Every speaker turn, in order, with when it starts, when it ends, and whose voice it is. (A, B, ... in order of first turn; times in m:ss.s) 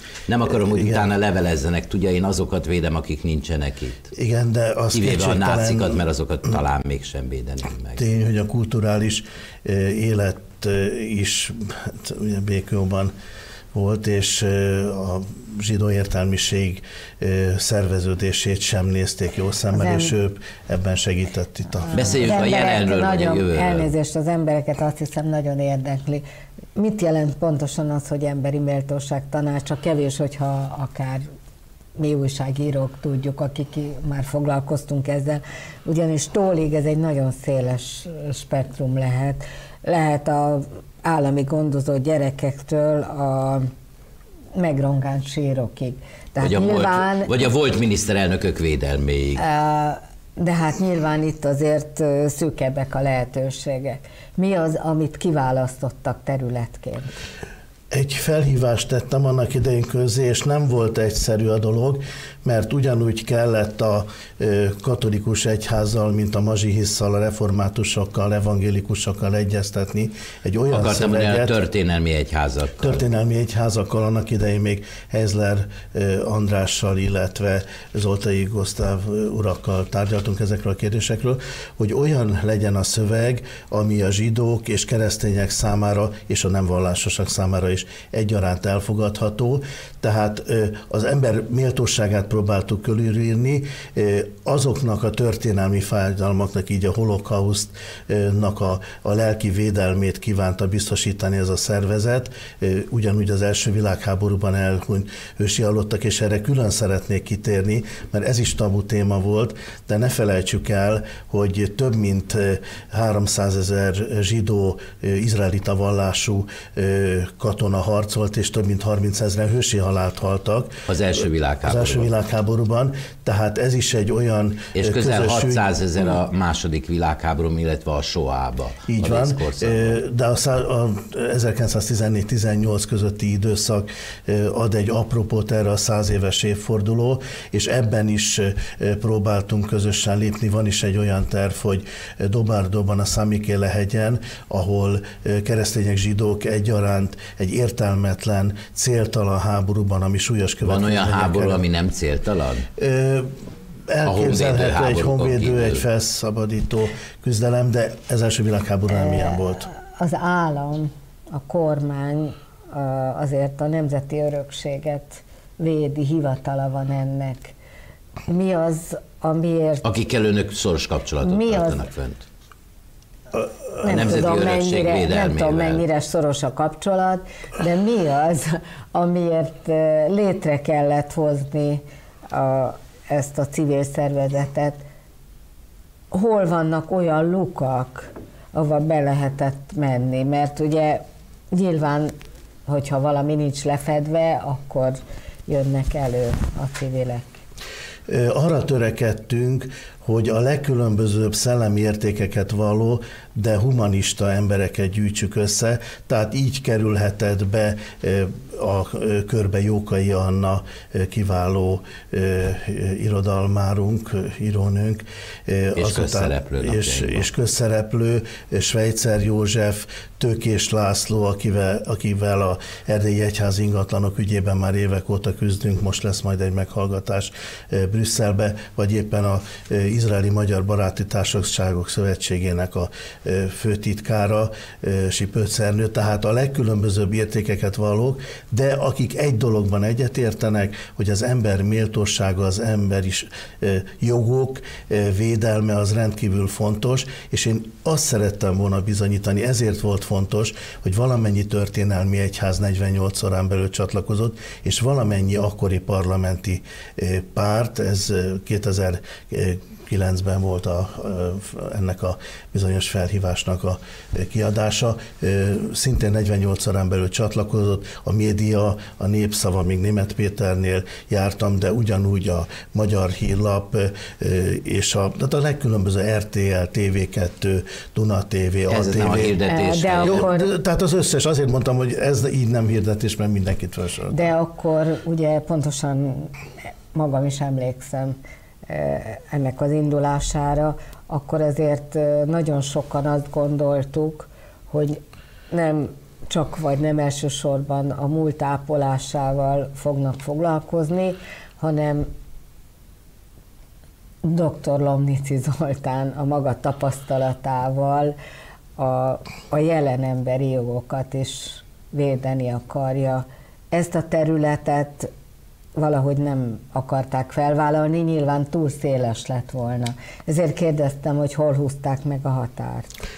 0:00.3-0:04.0 A
0:00.8-0:01.0 B
0:04.1-0:06.0 B
0:04.9-0:08.0 A
0:08.0-0:13.1 B
0:13.7-0:22.2 B
0:19.7-0:20.1 C
0:21.9-0:26.2 C
0:21.9-0:23.9 A
0:26.8-0:31.3 C
0:32.0-0:43.7 C
0:44.6-0:47.5 C
0:46.4-0:49.4 A
0:49.4-0:57.2 C
0:57.9-1:11.5 B
1:10.7-1:13.0 A
1:12.8-2:05.6 B
2:00.9-2:02.1 A
2:04.8-2:10.0 A
2:08.9-2:31.6 B
2:30.6-2:32.7 A
2:32.8-2:33.3 B
2:33.9-2:39.7 B
2:34.1-2:35.8 A
2:38.9-2:47.5 C
2:48.3-2:49.9 C
2:49.8-2:52.2 A
2:51.2-2:51.8 C
2:53.8-3:04.8 C
2:53.8-2:55.8 A
3:06.1-3:12.2 C
3:12.7-3:17.3 C
3:18.1-4:39.4 B
3:35.8-3:37.3 A
4:38.7-4:40.3 A
4:39.5-4:40.5 C
4:40.0-4:44.3 B
4:44.1-4:46.3 C
4:46.9-4:48.2 C
4:48.7-5:02.1 C
5:04.2-5:08.2 C
5:08.8-5:15.1 C
5:15.8-5:22.9 C